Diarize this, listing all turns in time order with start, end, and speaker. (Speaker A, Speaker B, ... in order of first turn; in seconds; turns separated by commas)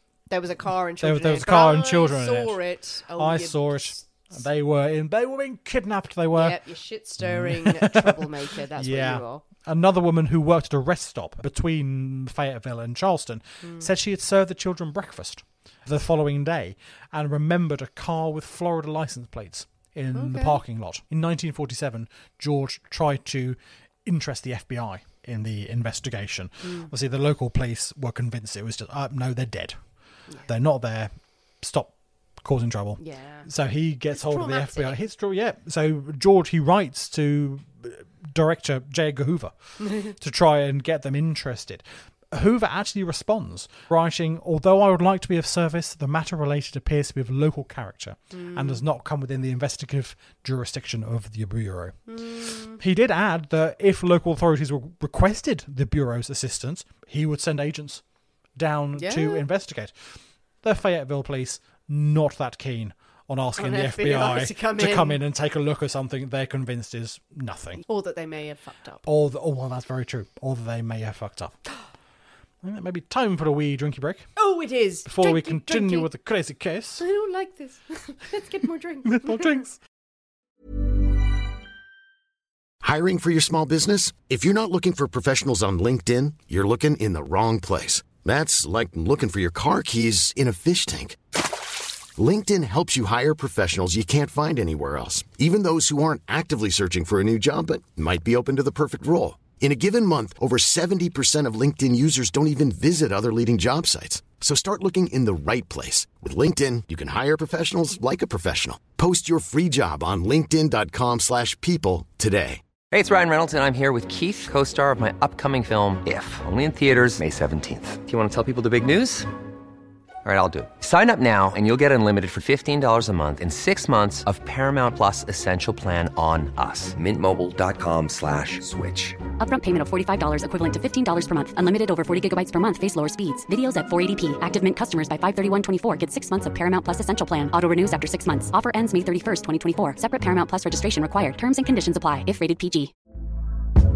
Speaker A: 0.3-4.3, Speaker B: 1.0-2.6, Speaker B: 3.1-6.6, Speaker A: 6.3-9.4, Speaker B: 7.2-29.8, Speaker A: 20.1-20.6, Speaker A: 26.6-26.9, Speaker B: 30.4-52.0, Speaker A: 33.0-33.5, Speaker A: 34.1-35.0, Speaker A: 39.8-40.1, Speaker A: 48.3-48.8, Speaker A: 52.1-52.8, Speaker B: 52.8-58.0, Speaker B: 58.5-67.8, Speaker A: 59.0-59.5, Speaker A: 63.6-65.2, Speaker A: 67.8-69.0, Speaker B: 69.0-71.5, Speaker B: 72.6-74.3, Speaker A: 74.4-76.1, Speaker B: 75.0-77.0, Speaker A: 77.0-79.6, Speaker B: 79.0-79.8, Speaker C: 82.8-91.5, Speaker C: 92.1-112.6, Speaker D: 112.9-119.3, Speaker D: 120.2-129.2, Speaker E: 129.4-142.9